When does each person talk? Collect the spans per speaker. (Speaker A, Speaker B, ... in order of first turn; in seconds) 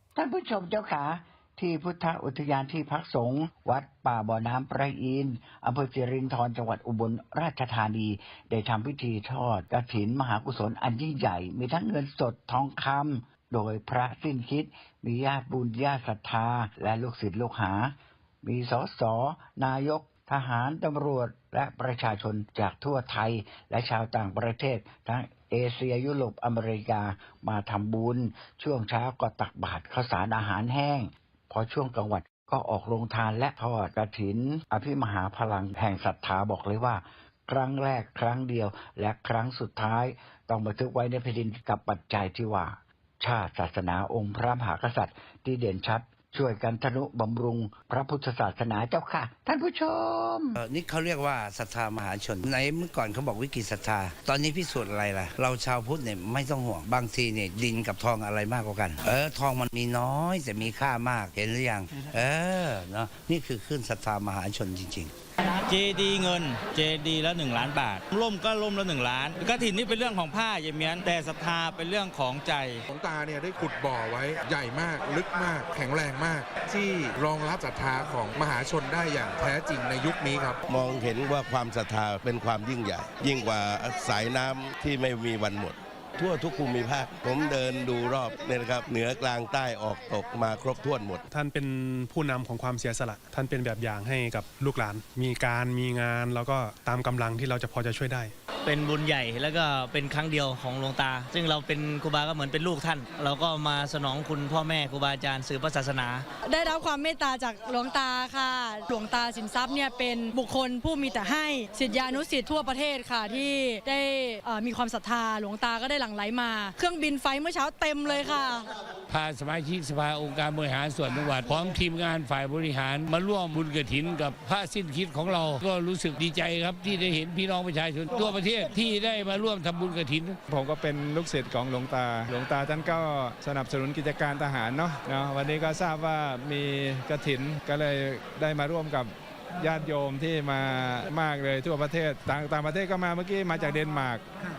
Speaker A: 0.1-50.6
Speaker B: 50.5-65.1
Speaker C: 65.4-72.8
Speaker D: 72.9-80.6
Speaker E: 80.7-91.2
Speaker F: 91.3-98.3
Speaker G: 98.6-106.2
Speaker H: 106.4-118.7
Speaker I: 119.1-130.4
Speaker J: 130.5-144.2